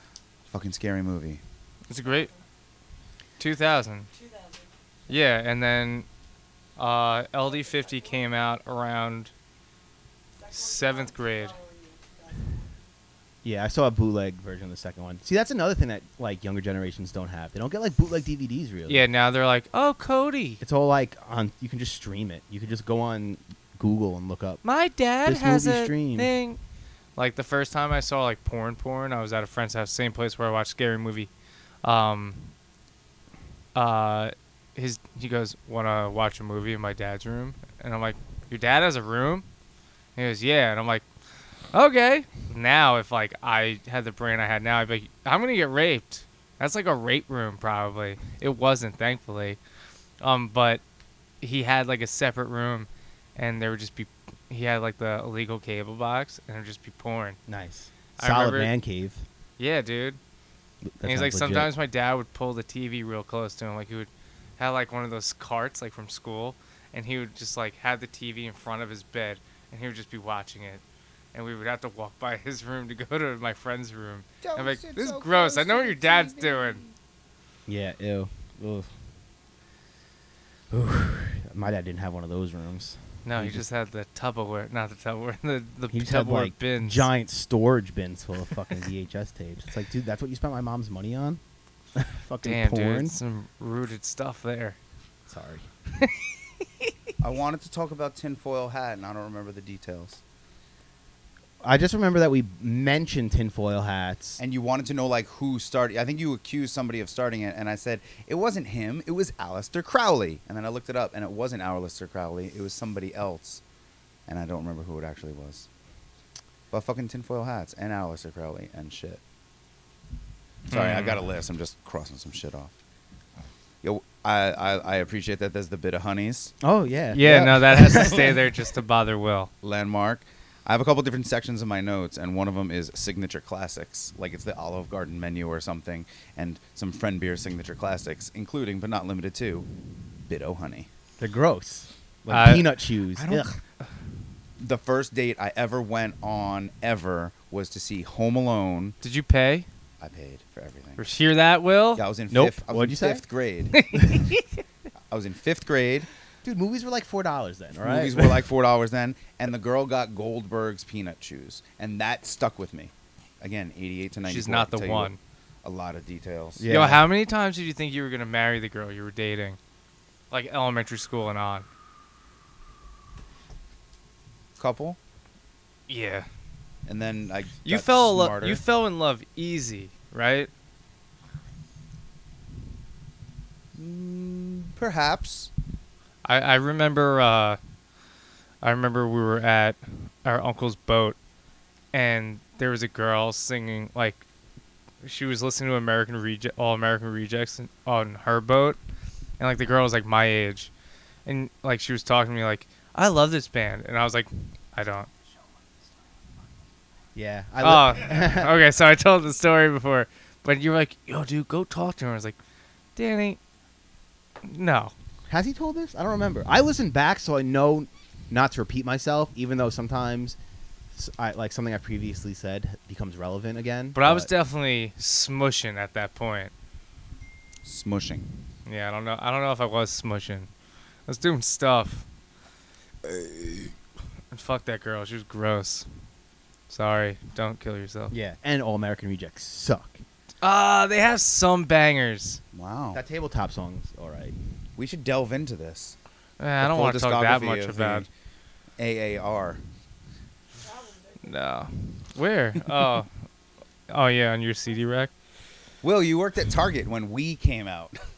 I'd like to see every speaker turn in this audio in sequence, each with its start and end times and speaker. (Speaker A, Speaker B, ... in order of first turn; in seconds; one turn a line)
Speaker A: 0.5-1.4
Speaker B: 1.9-2.3
Speaker C: 2.0-2.4
Speaker B: 3.4-4.1
Speaker C: 4.1-4.8
Speaker B: 5.1-6.1
Speaker B: 6.8-9.3
Speaker C: 7.4-8.3
Speaker C: 10.3-12.7
Speaker B: 10.5-11.6
Speaker D: 13.4-19.1
Speaker B: 18.9-20.6
Speaker D: 20.6-24.6
Speaker B: 24.6-26.6
Speaker D: 25.2-26.3
Speaker B: 27.2-31.3
Speaker B: 31.8-32.5
Speaker B: 33.8-39.5
Speaker B: 40.2-41.0
Speaker B: 41.7-49.6
Speaker B: 50.2-50.8
Speaker B: 51.4-57.4
Speaker D: 57.5-59.2
Speaker B: 58.2-58.7
Speaker B: 59.6-60.2
Speaker D: 61.0-61.7
Speaker B: 61.0-70.8
Speaker B: 71.3-76.8
Speaker A: 74.4-77.0
Speaker D: 77.7-78.9
Speaker D: 80.7-83.7
Speaker B: 83.2-87.1
Speaker D: 85.9-91.4
Speaker D: 92.0-93.2
Speaker B: 92.4-94.8
Speaker D: 95.3-95.7
Speaker B: 96.0-96.9
Speaker A: 97.2-100.2
Speaker D: 101.6-104.4
Speaker A: 104.4-113.6
Speaker A: 114.3-115.7
Speaker A: 116.7-119.2
Speaker B: 120.7-121.2
Speaker A: 120.7-122.7
Speaker A: 123.8-126.5
Speaker D: 126.6-128.4
Speaker B: 127.1-129.5
Speaker A: 129.6-139.7
Speaker A: 140.3-140.9
Speaker D: 141.2-143.5
Speaker B: 142.3-142.7
Speaker A: 143.2-143.6
Speaker A: 144.6-149.0
Speaker B: 149.0-149.7
Speaker A: 150.0-151.0
Speaker B: 151.0-152.0
Speaker A: 152.0-153.9
Speaker D: 152.3-153.2
Speaker B: 153.7-154.5
Speaker A: 155.1-156.1
Speaker D: 156.4-158.4
Speaker A: 157.8-165.1
Speaker B: 164.3-165.2
Speaker A: 165.6-166.6
Speaker D: 166.6-167.0
Speaker B: 166.7-169.6
Speaker B: 170.3-171.7
Speaker A: 174.6-175.0
Speaker B: 175.9-176.3
Speaker A: 176.9-178.6
Speaker B: 177.6-180.5
Speaker A: 183.8-185.5
Speaker B: 186.2-187.6
Speaker B: 188.6-191.2
Speaker B: 191.9-194.2
Speaker B: 195.0-198.8
Speaker B: 199.4-200.7
Speaker B: 201.3-205.1
Speaker D: 207.2-208.5
Speaker B: 207.6-212.4
Speaker B: 213.0-213.4
Speaker B: 214.4-214.9
Speaker D: 215.3-220.4
Speaker D: 220.9-224.3
Speaker B: 223.9-226.5
Speaker A: 227.6-228.3
Speaker B: 228.7-230.5
Speaker B: 231.1-232.1
Speaker B: 234.3-235.9
Speaker B: 236.7-238.1
Speaker D: 238.1-240.0
Speaker B: 240.4-242.4
Speaker A: 242.5-243.0
Speaker D: 242.9-244.3
Speaker A: 244.8-246.0
Speaker B: 246.4-248.1
Speaker A: 246.6-248.1
Speaker A: 248.8-249.6
Speaker C: 250.6-251.4
Speaker B: 251.2-253.1
Speaker B: 253.9-255.1
Speaker A: 255.8-258.0